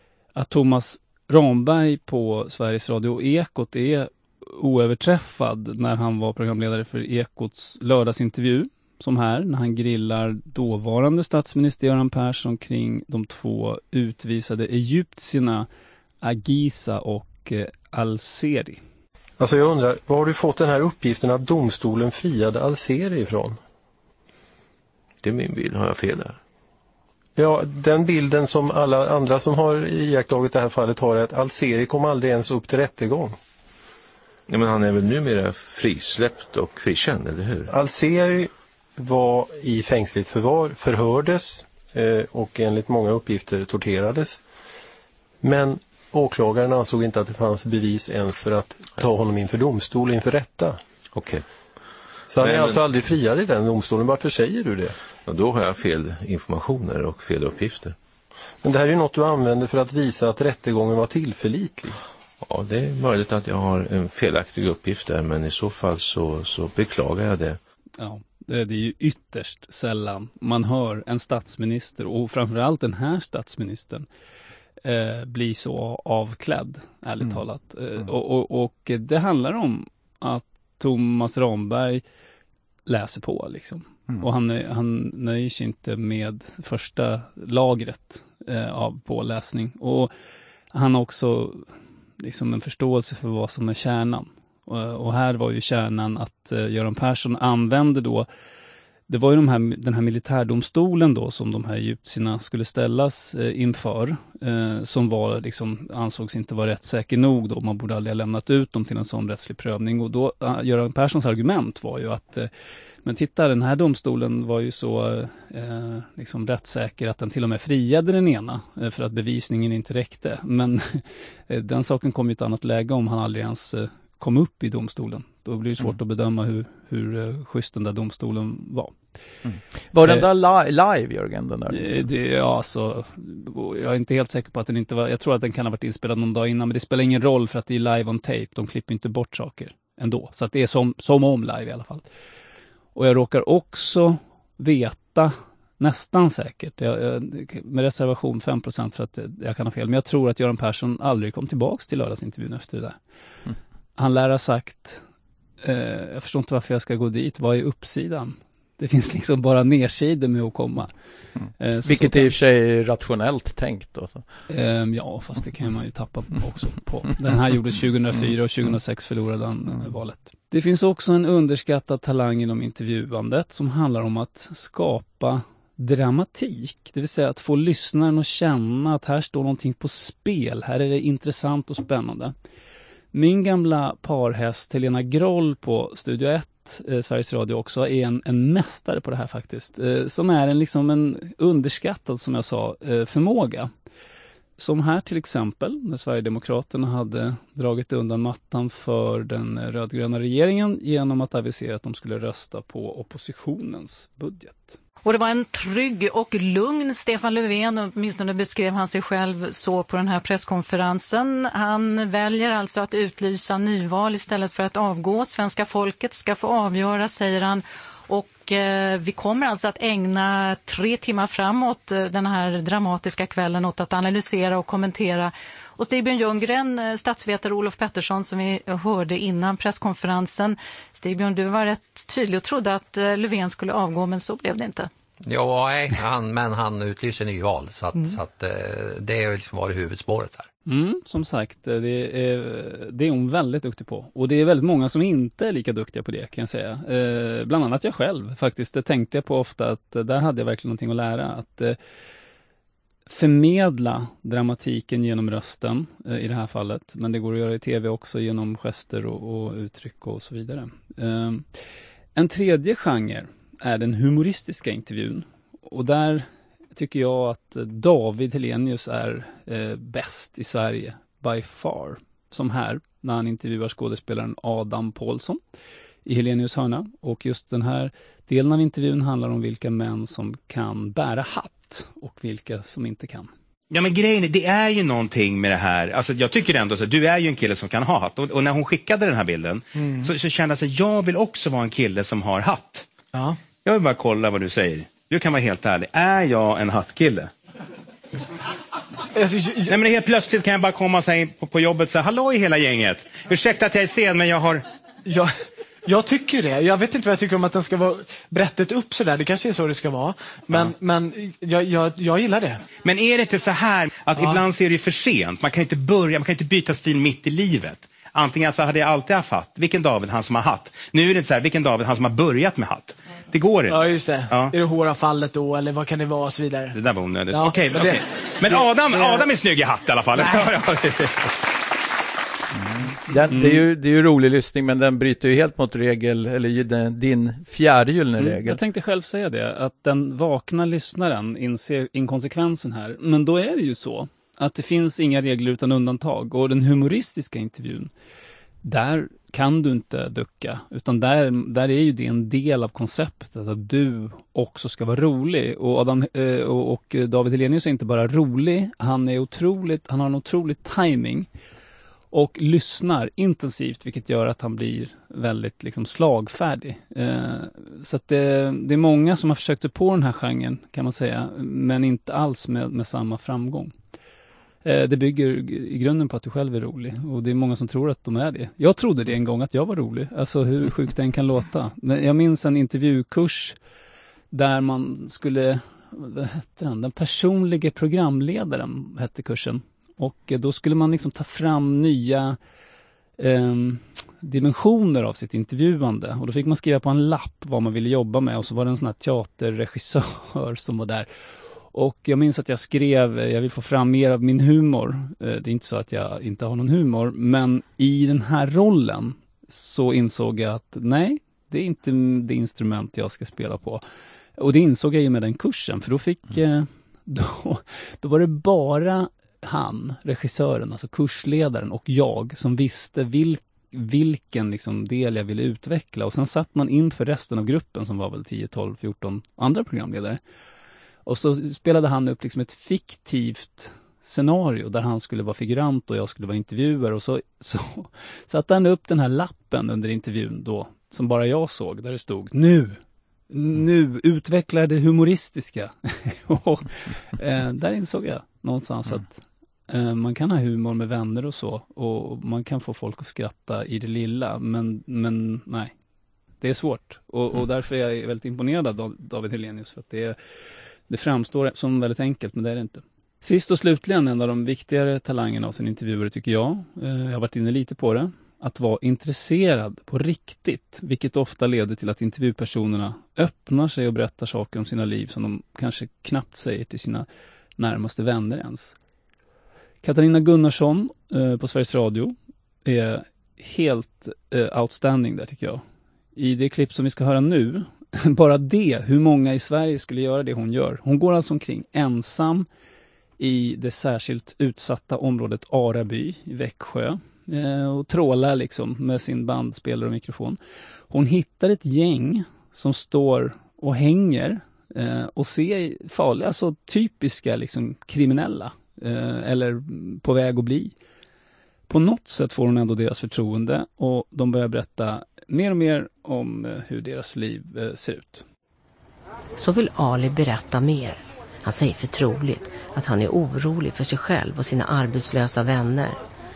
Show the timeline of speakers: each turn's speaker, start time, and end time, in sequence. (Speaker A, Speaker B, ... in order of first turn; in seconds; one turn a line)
Speaker A: 0.3-15.7
Speaker A: 16.2-18.8
Speaker B: 19.4-23.6
Speaker C: 25.2-26.4
Speaker B: 27.4-33.3
Speaker C: 34.5-37.7
Speaker B: 37.7-44.4
Speaker B: 45.4-50.8
Speaker C: 51.1-51.4
Speaker B: 52.3-54.9
Speaker C: 52.4-52.8
Speaker C: 55.2-57.9
Speaker B: 58.6-62.0
Speaker C: 62.4-67.6
Speaker A: 68.0-74.1
Speaker A: 74.8-82.0
Speaker A: 82.9-90.1
Speaker A: 90.7-91.7
Speaker A: 92.2-98.3
Speaker A: 99.1-112.5
Speaker A: 113.0-128.9
Speaker D: 129.4-132.0
Speaker A: 131.7-142.0
Speaker A: 142.9-153.0
Speaker A: 154.0-155.0
Speaker A: 155.6-160.9
Speaker A: 161.6-162.3
Speaker D: 161.8-164.2
Speaker A: 164.5-182.3
Speaker A: 183.1-193.7
Speaker A: 194.6-204.8
Speaker E: 205.0-234.9
Speaker F: 235.2-240.5
Speaker A: 240.7-251.8
Speaker A: 253.1-261.5
Speaker A: 262.1-275.4
Speaker A: 276.1-283.3
Speaker G: 283.7-292.9
Speaker G: 293.6-297.3
Speaker H: 299.1-299.7
Speaker G: 299.7-304.6
Speaker H: 305.1-305.3
Speaker H: 305.9-312.6
Speaker G: 312.8-324.5
Speaker H: 314.1-314.4
Speaker H: 323.7-326.8
Speaker G: 326.7-331.3
Speaker H: 327.3-329.3
Speaker H: 330.2-330.5
Speaker D: 332.6-338.6
Speaker A: 333.3-333.6
Speaker A: 338.2-347.9
Speaker A: 348.6-361.3
Speaker A: 362.1-373.7
Speaker A: 374.6-383.6
Speaker A: 384.3-392.4
Speaker A: 393.2-401.1
Speaker A: 401.7-413.8
Speaker A: 414.4-430.2
Speaker A: 431.1-442.8
Speaker A: 443.3-455.7
Speaker A: 456.4-460.1
Speaker A: 460.9-477.1
Speaker A: 477.6-478.7
Speaker A: 479.8-485.6
Speaker A: 486.1-492.5
Speaker A: 493.2-500.4
Speaker A: 500.9-510.7
Speaker A: 511.7-518.2
Speaker I: 519.4-526.0